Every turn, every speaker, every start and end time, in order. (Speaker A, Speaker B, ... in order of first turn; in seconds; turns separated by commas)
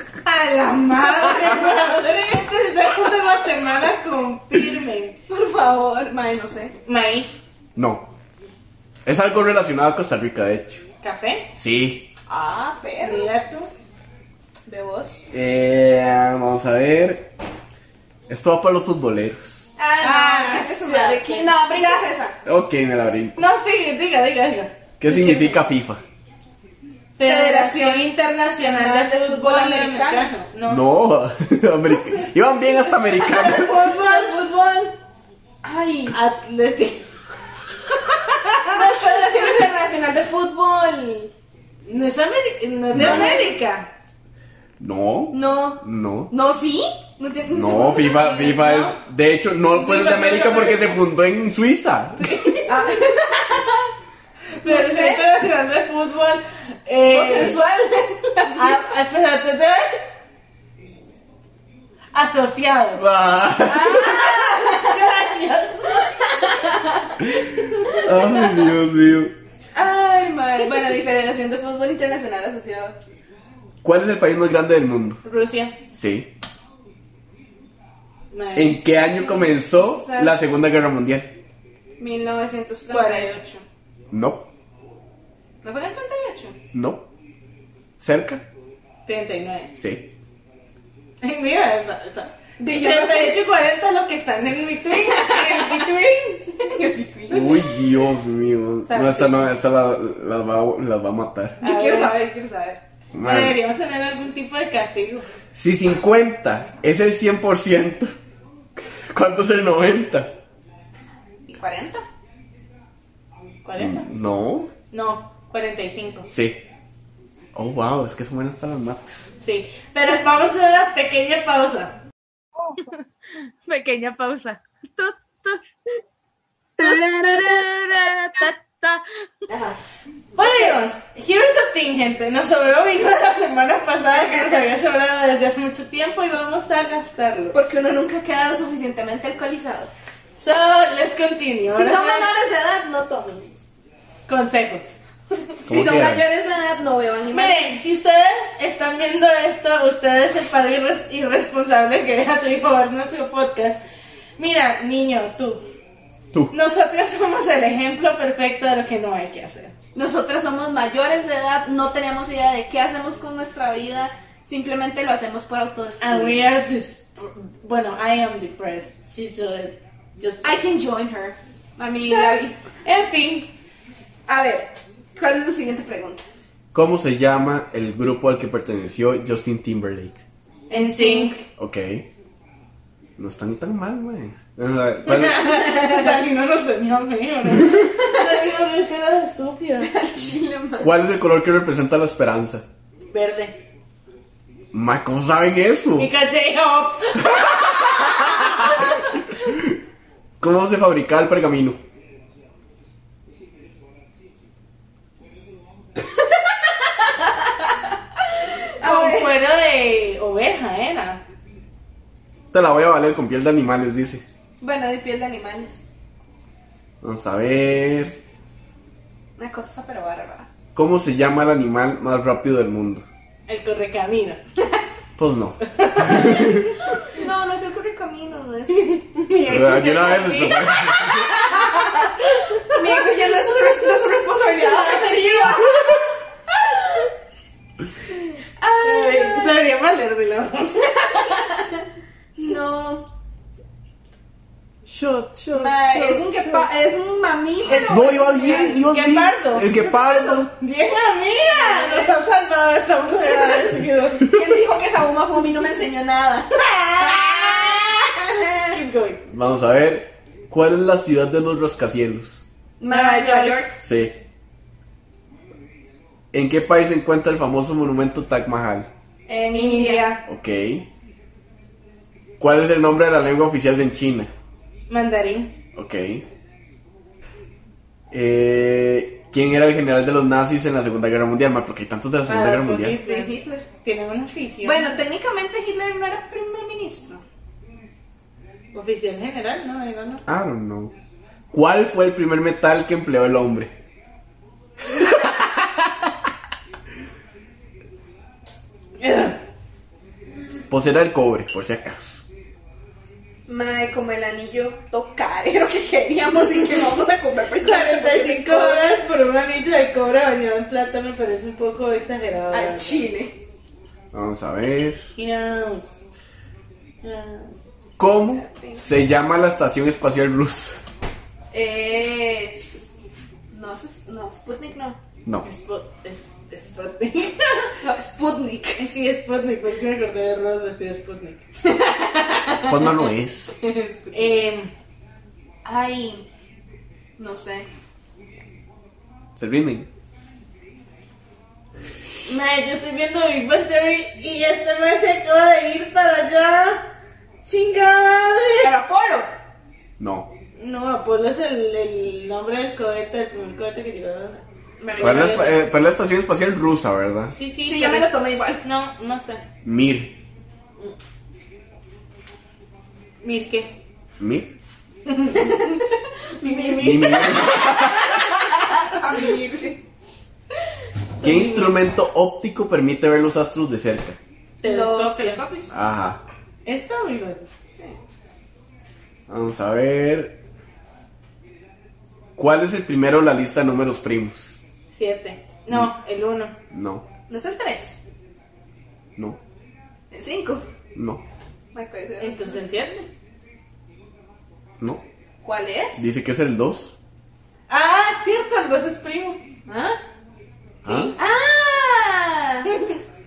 Speaker A: 0.2-5.2, Speaker B: 5.3-6.8, Speaker A: 6.9-7.4, Speaker C: 7.8-8.1, Speaker C: 9.1-10.8, Speaker A: 11.0-11.5, Speaker C: 11.6-12.1, Speaker B: 12.3-13.3, Speaker A: 13.0-13.7, Speaker B: 14.7-15.2, Speaker C: 15.3-17.3, Speaker C: 18.3-19.7, Speaker B: 19.8-22.4, Speaker A: 20.0-22.1, Speaker C: 22.4-23.4, Speaker A: 23.4-25.6, Speaker C: 25.0-26.0, Speaker A: 27.2-30.8, Speaker B: 27.2-30.3, Speaker C: 30.7-33.7, Speaker B: 33.2-35.0, Speaker A: 33.3-34.4, Speaker B: 35.6-36.2, Speaker A: 36.1-37.1, Speaker B: 38.7-41.3, Speaker A: 41.9-43.9, Speaker C: 42.9-43.5, Speaker B: 42.9-43.5, Speaker C: 44.8-46.3, Speaker B: 45.3-48.7, Speaker C: 47.5-52.3, Speaker A: 48.3-48.9, Speaker A: 49.7-50.9, Speaker B: 52.6-53.9, Speaker A: 54.6-57.6, Speaker B: 54.6-55.3, Speaker B: 57.1-58.8, Speaker A: 58.5-60.0, Speaker A: 62.1-63.0, Speaker C: 63.0-64.3, Speaker B: 63.6-65.0, Speaker A: 64.1-66.1, Speaker B: 65.9-68.6, Speaker C: 67.3-69.3, Speaker B: 69.7-73.0, Speaker C: 73.8-75.2, Speaker A: 75.2-75.8, Speaker C: 75.9-76.3, Speaker A: 78.3-78.8, Speaker C: 78.6-81.3, Speaker B: 79.0-80.3, Speaker B: 82.0-83.7, Speaker A: 82.9-83.3, Speaker C: 84.1-84.5, Speaker B: 85.6-86.6, Speaker C: 86.7-87.0, Speaker C: 88.0-88.4, Speaker A: 89.1-89.7, Speaker C: 89.8-90.1, Speaker A: 91.2-96.1, Speaker B: 92.6-93.4, Speaker B: 94.9-97.7, Speaker C: 97.3-101.6, Speaker A: 98.9-99.4, Speaker A: 101.6-102.2, Speaker B: 101.6-102.8, Speaker C: 103.1-103.6, Speaker A: 103.2-105.3, Speaker C: 105.6-108.1, Speaker C: 108.8-110.3, Speaker B: 111.5-112.0, Speaker A: 113.6-114.1, Speaker C: 113.8-114.7, Speaker A: 114.9-116.3, Speaker C: 116.3-116.6, Speaker C: 117.5-119.3, Speaker A: 119.4-122.0, Speaker A: 122.8-125.6, Speaker B: 126.8-128.5, Speaker A: 126.8-129.1, Speaker B: 129.5-129.8, Speaker A: 130.3-137.6, Speaker B: 130.4-130.8, Speaker B: 134.3-134.5, Speaker B: 137.5-139.9, Speaker A: 140.4-142.3, Speaker B: 141.7-143.4, Speaker A: 144.3-145.0, Speaker B: 145.7-147.7, Speaker C: 145.7-146.2, Speaker A: 147.3-153.8, Speaker A: 154.4-155.7, Speaker A: 156.5-159.7, Speaker B: 159.9-166.4, Speaker A: 166.0-170.5, Speaker B: 170.4-172.6, Speaker A: 172.0-173.5, Speaker B: 174.3-176.2, Speaker C: 176.7-180.2, Speaker B: 180.7-181.4, Speaker A: 180.7-181.4, Speaker C: 181.6-182.1, Speaker C: 183.2-185.6, Speaker A: 185.1-189.9, Speaker B: 185.8-186.2, Speaker B: 189.8-190.9, Speaker C: 190.8-192.7, Speaker A: 193.1-193.6, Speaker C: 194.7-196.1, Speaker A: 196.0-198.9, Speaker C: 198.4-198.7, Speaker C: 199.4-199.7, Speaker C: 200.4-201.8, Speaker B: 207.0-207.9, Speaker B: 208.8-209.3, Speaker A: 208.8-211.2, Speaker C: 212.5-214.2, Speaker B: 214.6-215.8, Speaker C: 217.0-218.2, Speaker B: 219.4-220.5, Speaker C: 220.8-223.1, Speaker A: 223.5-224.4, Speaker C: 225.2-226.7, Speaker A: 225.6-226.7, Speaker B: 227.0-229.0, Speaker A: 228.7-230.8, Speaker C: 229.5-231.4, Speaker B: 230.9-232.2, Speaker A: 232.3-233.1, Speaker B: 232.7-237.1, Speaker A: 234.6-235.9, Speaker B: 238.6-239.5, Speaker A: 238.8-241.1, Speaker B: 240.9-241.8, Speaker B: 242.4-243.1, Speaker C: 244.8-246.7, Speaker B: 245.5-248.8, Speaker A: 247.7-249.7, Speaker C: 247.9-250.5, Speaker B: 249.6-250.4, Speaker A: 250.6-254.3, Speaker B: 251.5-252.2, Speaker B: 253.1-258.8, Speaker C: 254.3-254.5, Speaker A: 256.9-257.9, Speaker A: 258.7-259.2, Speaker C: 259.3-262.4, Speaker B: 262.8-263.8, Speaker A: 262.9-263.6, Speaker C: 263.8-264.1, Speaker C: 266.3-268.9, Speaker B: 269.3-270.1, Speaker A: 269.5-270.2, Speaker C: 270.3-270.9, Speaker C: 272.4-274.3, Speaker A: 274.9-275.5, Speaker C: 275.8-276.2, Speaker C: 278.1-283.0, Speaker A: 282.3-285.0, Speaker B: 282.9-283.7, Speaker B: 284.6-287.2, Speaker A: 288.7-290.2, Speaker C: 290.3-290.9, Speaker C: 291.5-293.7, Speaker C: 294.9-295.8, Speaker A: 299.0-299.4, Speaker C: 300.7-302.2, Speaker B: 303.5-308.9, Speaker A: 307.6-313.1, Speaker B: 312.5-313.4, Speaker C: 314.1-315.1, Speaker A: 315.1-316.0, Speaker A: 317.0-317.6, Speaker C: 318.0-320.8, Speaker B: 318.3-318.9, Speaker B: 321.5-322.9, Speaker B: 323.5-325.0, Speaker A: 325.4-327.8, Speaker B: 327.8-328.8, Speaker A: 328.8-331.5, Speaker B: 331.7-332.7, Speaker C: 332.7-333.6, Speaker B: 333.6-334.1, Speaker A: 334.1-334.7, Speaker B: 335.6-336.3, Speaker B: 337.2-337.7, Speaker C: 339.4-339.9, Speaker A: 342.3-346.9, Speaker A: 347.4-348.7, Speaker B: 348.6-349.3, Speaker C: 350.0-350.3, Speaker A: 350.6-354.4, Speaker B: 354.8-355.5, Speaker A: 355.0-355.6, Speaker C: 355.0-357.3, Speaker A: 357.3-358.1, Speaker B: 357.7-358.6, Speaker A: 358.6-359.4, Speaker C: 359.6-360.1, Speaker A: 363.2-363.8, Speaker C: 364.2-364.5, Speaker A: 365.1-365.8, Speaker B: 365.3-369.8, Speaker A: 366.4-367.5, Speaker C: 366.8-368.3, Speaker A: 371.2-371.7, Speaker C: 371.2-374.2, Speaker A: 374.6-375.4, Speaker B: 374.6-375.7, Speaker C: 375.7-376.2, Speaker A: 376.6-377.5, Speaker C: 379.3-380.4, Speaker C: 382.4-384.6, Speaker A: 384.9-386.5, Speaker C: 386.7-387.1, Speaker B: 387.3-388.0, Speaker B: 390.1-390.7, Speaker C: 390.9-391.2, Speaker B: 391.7-392.6, Speaker A: 392.2-393.1, Speaker B: 395.4-396.0, Speaker C: 396.0-396.9, Speaker A: 397.7-399.4, Speaker B: 399.7-400.0, Speaker C: 400.8-401.1, Speaker A: 400.9-401.1, Speaker B: 401.2-402.8